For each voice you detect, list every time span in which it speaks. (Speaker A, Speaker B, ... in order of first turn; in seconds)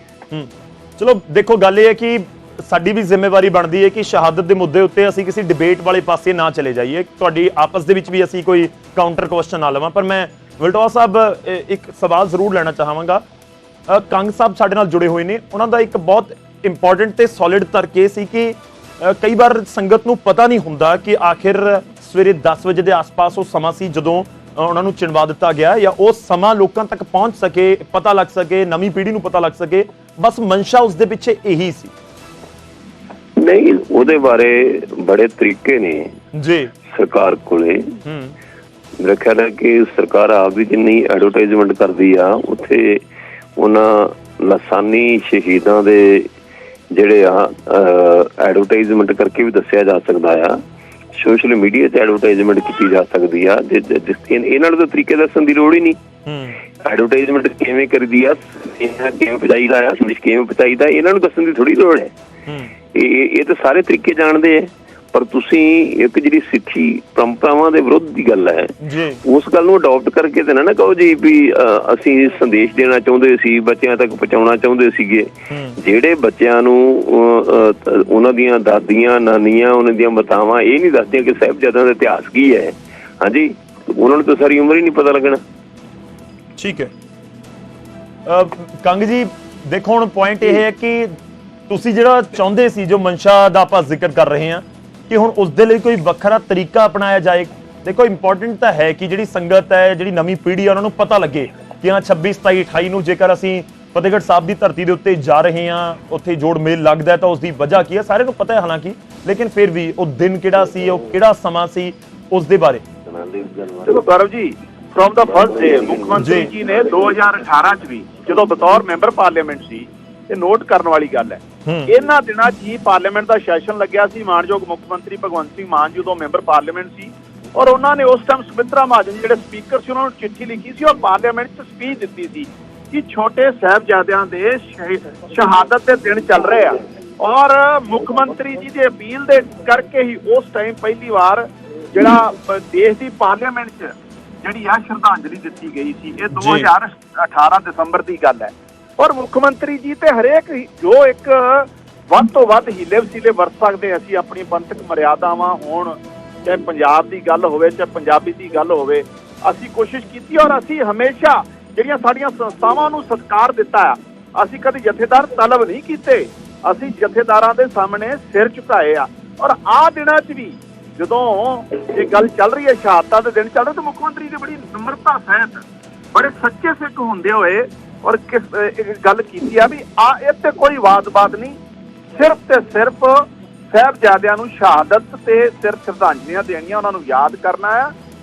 Speaker A: 0.3-13.2, 13.9-31.9, 36.3-36.7, 38.0-38.4, 56.2-56.6, 62.5-62.7, 68.8-69.2, 75.5-75.8, 86.6-86.9, 88.3-91.1, 91.7-112.8, 116.2-116.5, 121.7-121.9, 146.4-146.7
Speaker B: 33.4-36.1, 36.9-37.9, 39.0-43.0, 43.6-46.3, 46.9-50.6, 51.2-56.0, 56.8-62.1, 62.9-85.4, 113.1-114.1, 115.3-117.0
Speaker C: 113.9-181.6, 182.1-187.9